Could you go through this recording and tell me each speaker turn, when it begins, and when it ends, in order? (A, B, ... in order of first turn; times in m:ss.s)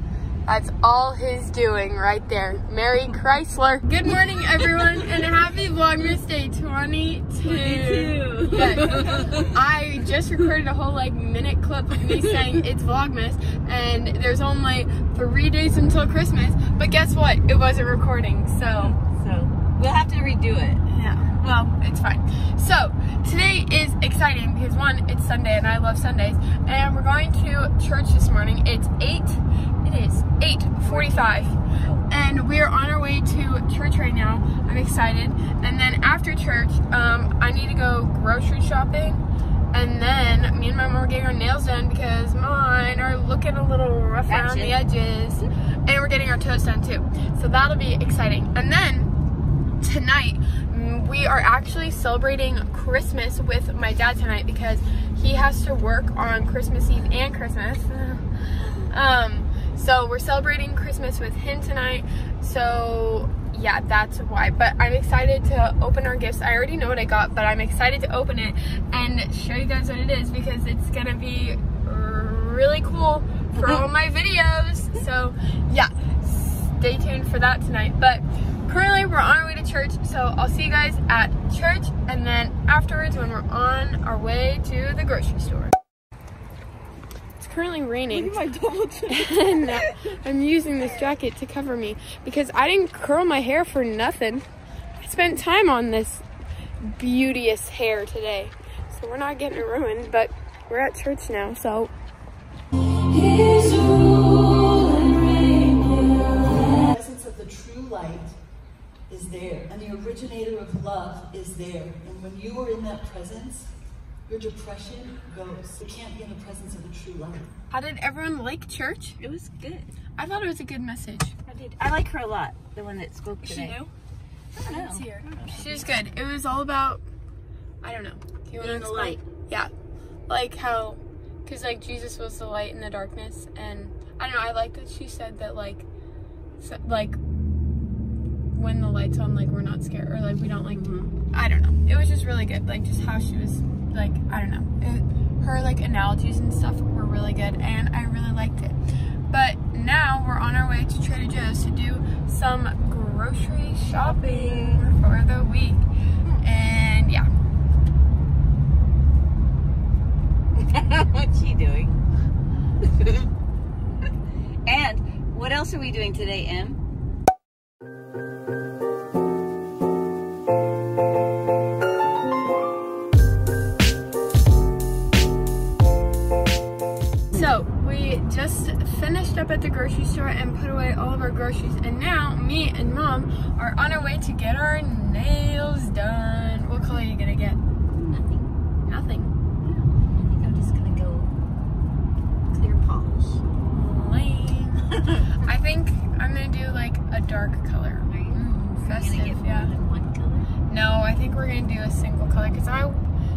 0:00.5-0:19.0 A
0:07.4-0:09.5 B
0:18.8-0:20.8 B
0:20.9-0:31.6 A
0:30.8-0:32.1 B
0:32.1-0:39.2 A
0:39.7-0:49.1 A
0:44.3-0:44.8 B
0:49.8-1:25.7 A
1:27.4-1:28.4 A
1:29.1-1:34.5 A
1:35.0-1:36.3 A
1:36.8-1:41.9 A
1:43.3-1:44.4 C
1:45.6-1:48.4 C
1:49.1-1:53.7 C
1:54.3-1:57.5 C
1:57.7-1:59.2 A
1:59.2-1:59.9 B
2:00.2-2:01.4 A
2:01.5-2:03.9 B
2:03.4-2:03.9 A
2:04.6-2:05.9 B
2:04.6-2:07.0 A
2:07.8-2:09.7 A
2:08.6-2:09.2 B
2:10.3-2:15.9 A
2:16.6-2:17.2 A
2:18.5-2:28.8 A
2:20.7-2:21.1 B
2:29.3-2:35.8 A
2:34.0-2:34.9 B
2:36.4-2:37.3 A
2:40.6-2:42.0 B
2:42.9-2:43.2 B
2:44.7-2:46.8 B
2:57.3-3:07.6 A
3:07.9-3:08.5 B
3:08.8-3:09.3 A
3:09.6-3:11.3 B
3:12.5-3:13.4 B
3:13.7-3:19.7 A
3:14.9-3:15.3 B
3:18.1-3:20.5 B
3:20.7-3:23.0 A